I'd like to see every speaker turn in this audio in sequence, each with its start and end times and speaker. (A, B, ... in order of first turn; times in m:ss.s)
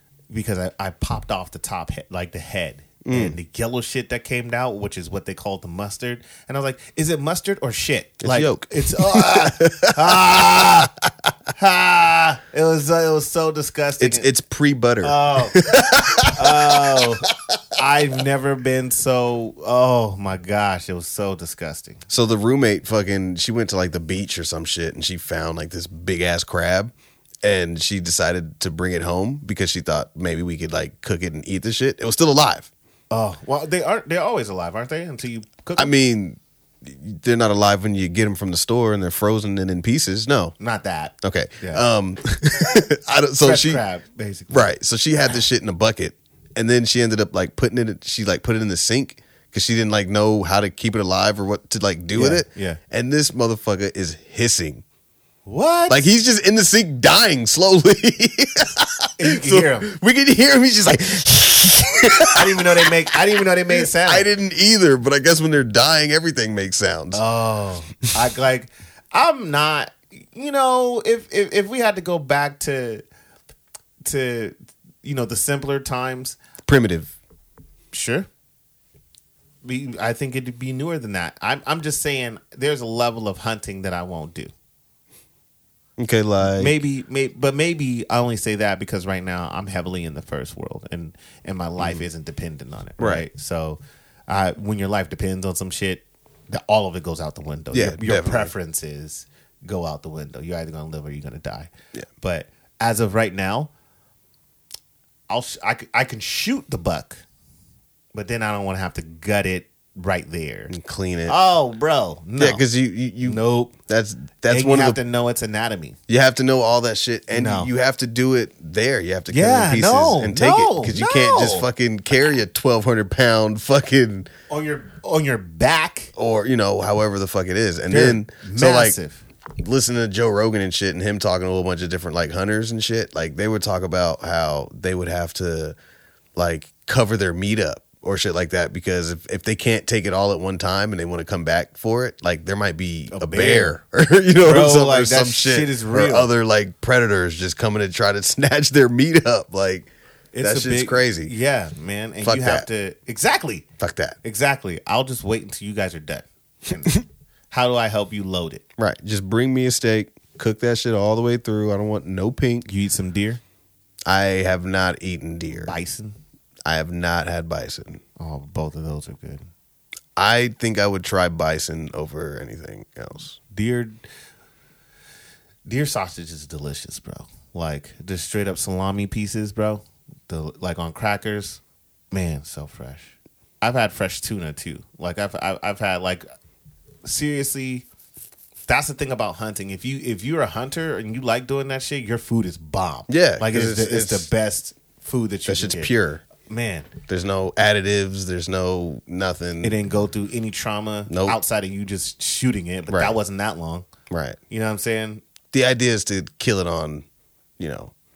0:00.3-0:10.9 A
0:03.0-0:03.3 B
0:08.2-0:11.3 B
0:11.5-0:14.3 A
0:14.0-0:17.6 B
0:15.0-0:22.0 A
0:22.1-0:32.7 B
0:33.1-0:35.9 A
0:35.8-0:40.5 B
0:40.6-0:41.8 A
0:41.2-0:43.8 B
0:43.4-0:44.7 A
0:44.5-0:54.8 B
0:52.1-0:52.8 A
0:55.4-0:56.1 A
0:55.9-1:07.2 B
0:59.2-0:59.9 A
1:02.3-1:04.3 A
1:07.1-1:13.0 A
1:14.0-1:16.4 A
1:16.7-1:17.1 B
1:17.9-1:18.3 A
1:19.6-1:24.5 A
1:26.0-1:26.8 B
1:26.4-1:43.7 A
1:31.8-1:32.0 B
1:33.0-1:33.2 B
1:37.7-1:38.5 B
1:45.3-1:47.2 A
1:48.1-1:50.7 A
1:50.7-1:51.3 B
1:51.3-1:52.6 A
1:52.4-1:55.0 B
1:53.2-1:53.7 A
1:54.5-1:56.0 A
1:56.1-2:04.3 B
1:57.3-1:57.7 A
1:59.3-2:01.7 A
2:04.5-2:06.1 A
2:06.1-2:09.0 B
2:07.9-2:09.2 A
2:09.6-2:15.8 B
2:16.4-2:29.9 B
2:23.1-2:23.7 A
2:24.4-2:26.3 A
2:30.3-2:33.6 A
2:30.4-2:31.3 B
2:32.2-2:32.6 B
2:33.8-2:34.2 B
2:34.2-2:38.6 A
2:38.8-2:42.7 B
2:42.6-2:43.4 A
2:44.1-2:45.7 B
2:45.6-2:46.2 A
2:46.6-2:48.0 B
2:48.2-2:49.4 A
2:50.2-2:53.4 B
2:53.5-2:54.0 A
2:55.6-3:01.6 A
3:02.1-3:06.2 A
3:07.0-3:07.8 A
3:08.7-3:16.9 A
3:13.1-3:14.3 B
3:15.4-3:16.2 B
3:17.1-3:19.8 B
3:19.6-3:23.9 A
3:21.1-3:21.4 B
3:22.9-3:23.1 B
3:24.1-3:24.4 B
3:24.5-3:25.2 A
3:25.5-3:27.0 B
3:27.6-3:27.9 B